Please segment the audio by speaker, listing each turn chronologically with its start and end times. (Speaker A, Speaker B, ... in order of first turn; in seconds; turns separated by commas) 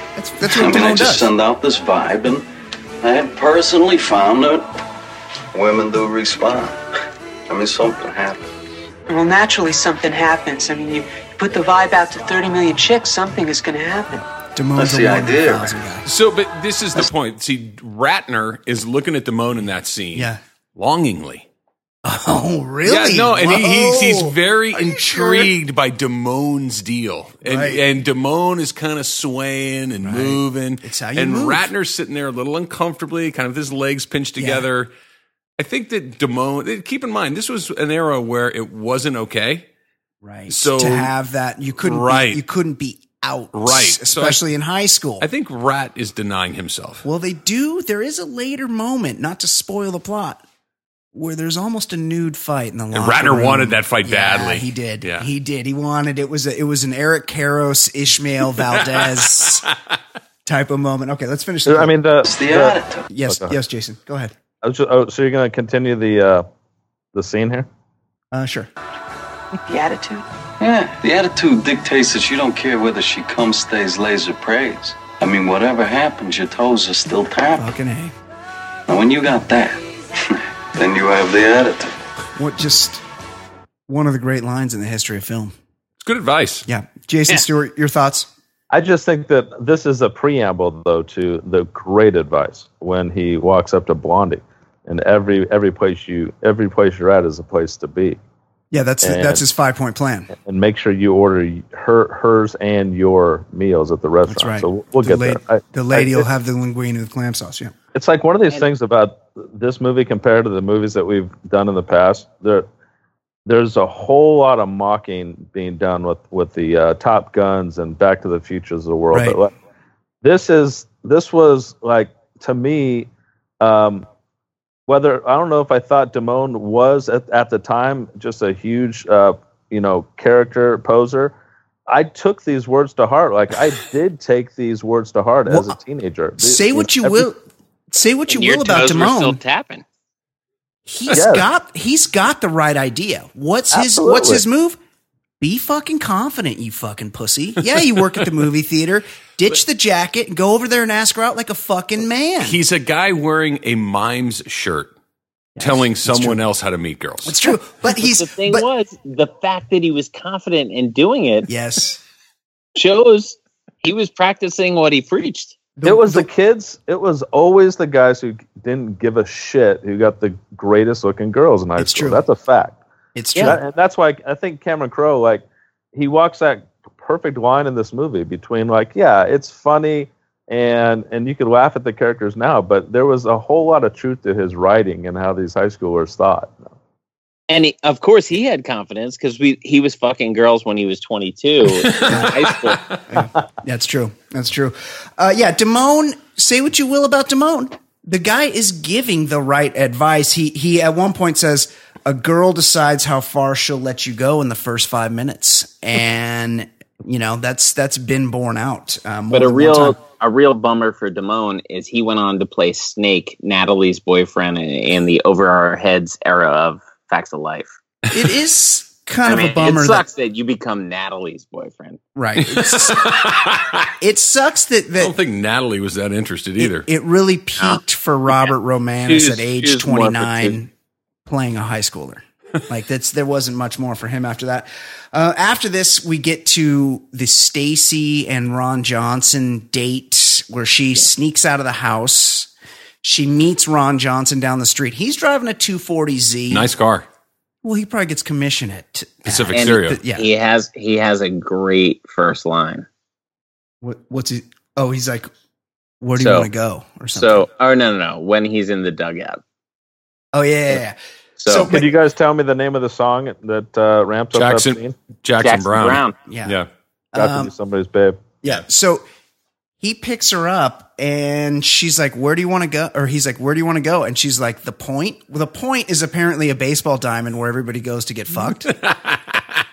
Speaker A: 0.2-1.3, Speaker B: 0.5-2.5, Speaker B: 3.0-4.7, Speaker B: 5.5-6.8, Speaker B: 7.5-8.5, Speaker C: 9.1-14.2, Speaker A: 14.6-16.1, Speaker B: 14.8-15.8, Speaker D: 16.1-21.5, Speaker A: 20.1-20.4, Speaker A: 22.1-25.5, Speaker D: 22.9-34.9, Speaker A: 27.4-27.8, Speaker A: 30.0-31.7, Speaker A: 34.4-34.7, Speaker D: 35.6-39.7, Speaker A: 40.2-45.3, Speaker D: 40.5-41.1, Speaker D: 41.8-42.4, Speaker D: 43.5-44.4, Speaker D: 45.2-47.0, Speaker A: 47.0-50.4, Speaker A: 51.1-59.6, Speaker D: 52.9-55.3, Speaker D: 58.9-59.6, Speaker A: 60.5-62.0, Speaker E: 61.7-63.6, Speaker B: 62.2-63.1, Speaker A: 63.1-64.3, Speaker E: 64.6-66.5, Speaker E: 67.1-67.7, Speaker A: 68.3-68.7, Speaker C: 69.7-70.2, Speaker B: 70.6-77.7, Speaker A: 77.6-78.1, Speaker B: 78.9-81.9, Speaker A: 82.4-83.0, Speaker A: 83.9-85.5, Speaker D: 86.0-86.7, Speaker A: 86.7-88.3, Speaker E: 88.7-98.2, Speaker A: 98.7-100.3, Speaker E: 99.0-99.4, Speaker E: 100.3-106.3, Speaker A: 104.3-107.7, Speaker E: 107.9-112.7, Speaker E: 113.5-119.5, Speaker A: 119.1-119.4, Speaker E: 120.2-123.1, Speaker E: 123.6-124.1, Speaker E: 124.9-131.3, Speaker E: 131.9-137.3, Speaker A: 135.5-135.8, Speaker A: 136.4-137.4, Speaker A: 137.9-139.4, Speaker F: 138.3-139.8, Speaker A: 140.9-144.8, Speaker E: 141.1-141.5, Speaker E: 143.7-144.4, Speaker A: 145.4-152.6, Speaker D: 152.4-154.9, Speaker A: 155.6-156.4, Speaker D: 155.6-157.4, Speaker A: 157.2-158.7, Speaker F: 158.0-161.5, Speaker A: 161.5-162.0, Speaker F: 162.8-165.6, Speaker A: 165.8-166.3, Speaker E: 165.8-172.8, Speaker A: 171.8-172.2, Speaker A: 173.2-173.6, Speaker E: 173.4-186.7, Speaker F: 187.5-192.8, Speaker D: 191.8-193.0, Speaker A: 193.1-210.0, Speaker F: 209.3-217.7, Speaker A: 218.1-220.1, Speaker F: 219.2-222.0, Speaker A: 222.2-223.1, Speaker D: 222.4-223.9, Speaker A: 224.0-225.1, Speaker D: 225.0-226.9, Speaker A: 226.6-230.7, Speaker F: 229.1-230.6, Speaker A: 231.3-242.5, Speaker A: 243.0-246.7, Speaker D: 246.5-247.1, Speaker A: 247.6-250.3, Speaker D: 249.3-250.0, Speaker F: 249.5-252.9, Speaker A: 253.8-255.3, Speaker A: 256.0-257.5, Speaker F: 256.2-256.5, Speaker F: 257.1-259.4, Speaker A: 260.3-261.9, Speaker F: 261.4-261.7, Speaker E: 261.7-264.9, Speaker D: 264.4-266.7, Speaker F: 265.4-266.2, Speaker A: 266.3-266.6, Speaker A: 267.1-267.5, Speaker E: 267.1-268.3, Speaker A: 268.4-269.0, Speaker A: 269.8-278.7, Speaker D: 278.7-279.4